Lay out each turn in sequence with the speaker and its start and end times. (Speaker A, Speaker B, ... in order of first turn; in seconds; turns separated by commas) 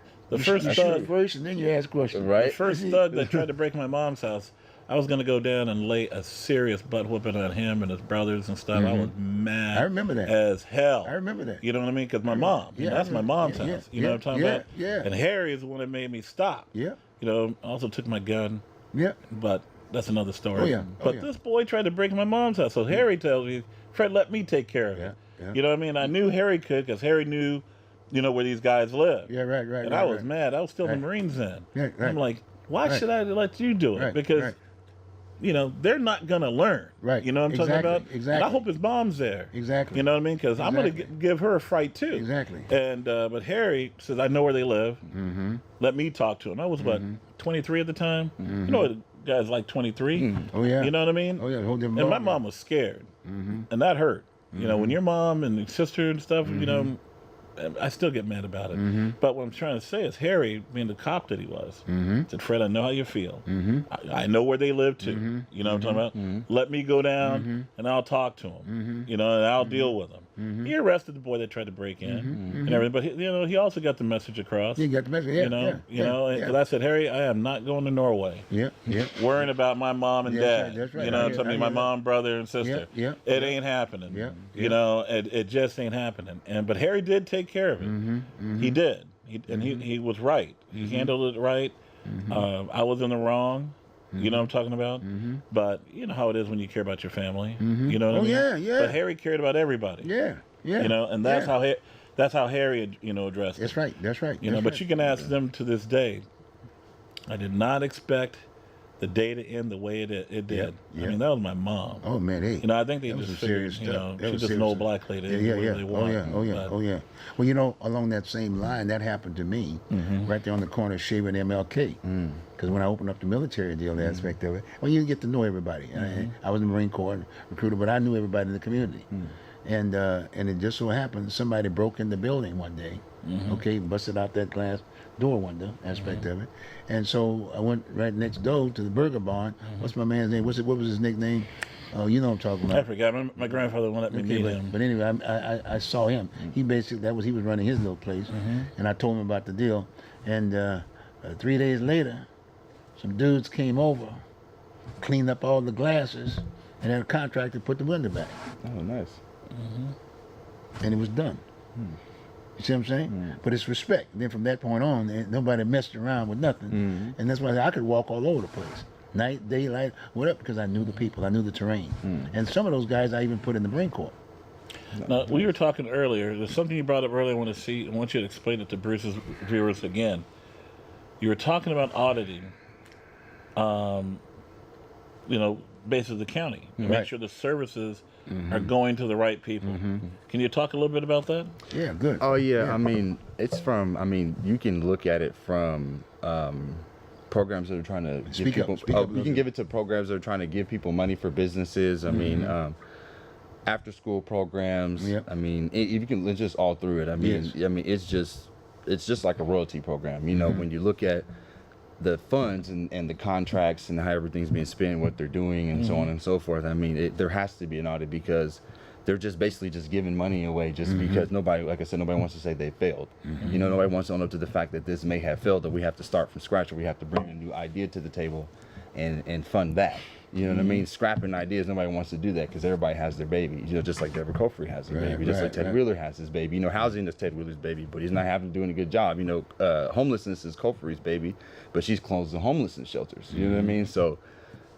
Speaker A: 0.3-1.1, Speaker B: 0.3-3.5, Speaker C: 0.6-1.1, Speaker C: 2.1-2.6, Speaker A: 2.4-18.6, Speaker B: 8.7-9.1, Speaker B: 9.7-10.4, Speaker B: 11.0-11.6, Speaker B: 12.3-15.1, Speaker B: 16.7-17.0, Speaker B: 18.9-19.2, Speaker A: 19.3-34.6, Speaker B: 20.6-21.3, Speaker B: 24.9-25.6, Speaker B: 29.3-30.3, Speaker B: 31.7-32.2, Speaker B: 34.0-34.6, Speaker A: 35.4-45.0, Speaker B: 37.0-38.7, Speaker B: 39.5-41.1, Speaker B: 42.1-42.7, Speaker B: 45.1-45.6, Speaker A: 45.8-53.1, Speaker B: 46.8-47.2, Speaker B: 48.4-48.9, Speaker C: 50.2-50.5, Speaker B: 50.5-52.4, Speaker B: 53.2-53.7, Speaker A: 53.7-57.0, Speaker B: 54.5-55.0, Speaker B: 56.5-56.9, Speaker A: 57.6-74.8, Speaker B: 58.7-59.2, Speaker B: 61.9-62.3, Speaker B: 63.5-63.9, Speaker B: 65.0-66.0, Speaker C: 66.1-66.5, Speaker B: 67.2-67.7, Speaker B: 68.7-69.1, Speaker B: 69.6-70.7, Speaker B: 72.0-72.8, Speaker C: 72.3-72.7, Speaker B: 74.8-76.6, Speaker A: 75.4-88.0, Speaker B: 78.5-79.2, Speaker B: 80.2-81.9, Speaker B: 82.6-84.8, Speaker B: 87.8-88.8, Speaker A: 88.5-91.8, Speaker B: 89.5-89.9, Speaker B: 90.7-91.1, Speaker B: 92.1-92.5, Speaker A: 92.3-100.1, Speaker B: 94.1-94.5, Speaker B: 95.0-95.4, Speaker B: 97.6-99.0, Speaker B: 100.0-101.5, Speaker A: 100.8-103.8, Speaker B: 103.6-104.9, Speaker A: 104.4-106.3, Speaker A: 107.3-108.4, Speaker A: 109.0-112.0, Speaker B: 110.5-111.2, Speaker B: 112.0-122.0, Speaker A: 112.6-116.7, Speaker A: 119.9-120.3, Speaker C: 122.0-122.4, Speaker B: 122.6-129.1, Speaker A: 126.0-126.3, Speaker B: 129.6-142.9, Speaker A: 133.2-133.6, Speaker A: 136.0-136.2, Speaker A: 142.7-144.8, Speaker B: 144.1-152.3, Speaker A: 148.3-148.7, Speaker B: 153.0-154.2, Speaker B: 155.0-158.4, Speaker C: 158.6-159.2, Speaker A: 159.5-159.9, Speaker B: 160.8-161.4, Speaker B: 162.6-174.2, Speaker C: 163.1-163.4, Speaker C: 166.7-167.2, Speaker C: 172.1-172.3, Speaker C: 174.9-175.5, Speaker A: 175.0-180.3, Speaker A: 181.2-182.5, Speaker A: 183.6-184.2, Speaker A: 185.3-191.5, Speaker B: 186.8-187.1, Speaker B: 188.3-188.7, Speaker B: 189.6-190.1, Speaker B: 191.7-192.8, Speaker C: 192.2-202.8, Speaker B: 198.3-199.4, Speaker B: 202.1-202.6, Speaker C: 203.7-211.3, Speaker B: 205.0-205.3, Speaker B: 207.2-207.6, Speaker C: 212.0-244.2, Speaker A: 215.7-216.1, Speaker B: 220.9-221.3, Speaker B: 223.3-223.6, Speaker A: 223.4-223.7, Speaker B: 230.5-230.8, Speaker B: 234.9-235.8, Speaker B: 243.3-243.7